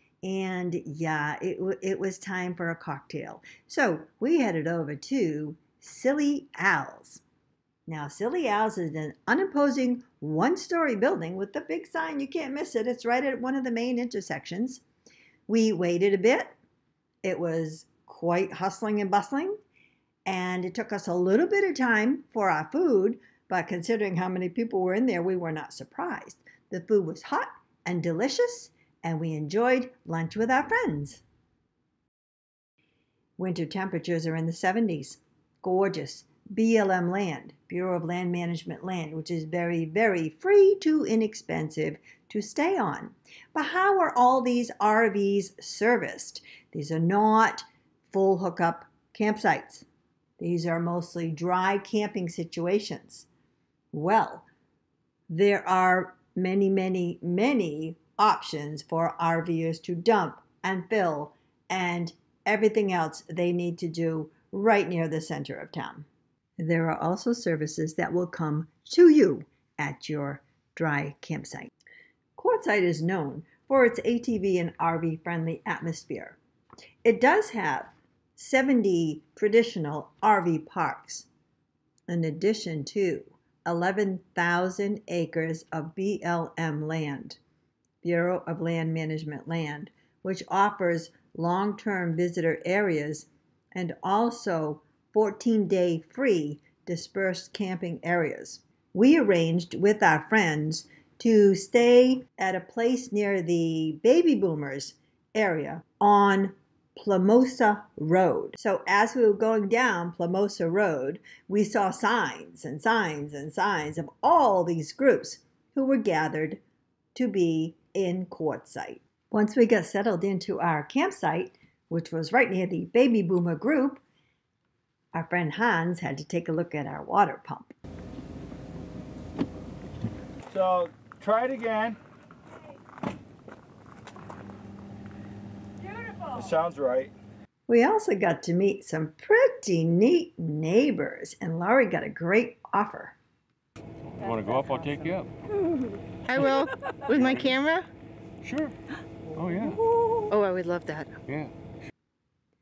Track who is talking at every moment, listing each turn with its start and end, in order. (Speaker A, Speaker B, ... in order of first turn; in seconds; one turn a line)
Speaker A: 0.2-7.2
Speaker A: 7.9-14.8
Speaker A: 15.5-16.6
Speaker A: 17.2-19.6
Speaker A: 20.3-31.2
Speaker A: 33.4-49.9
Speaker A: 50.4-53.3
Speaker A: 53.9-54.5
Speaker A: 55.3-66.1
Speaker A: 66.6-71.7
Speaker A: 72.4-76.4
Speaker A: 77.0-81.3
Speaker A: 82.1-87.4
Speaker A: 88.0-116.6
Speaker A: 117.2-124.0
Speaker A: 125.1-127.7
Speaker B: 130.5-132.0
Speaker B: 136.3-137.1
Speaker A: 137.7-143.2
Speaker C: 144.0-145.3
Speaker D: 146.3-147.9
Speaker C: 148.4-148.8
Speaker C: 149.3-149.8
Speaker D: 150.3-151.2
Speaker C: 151.3-151.5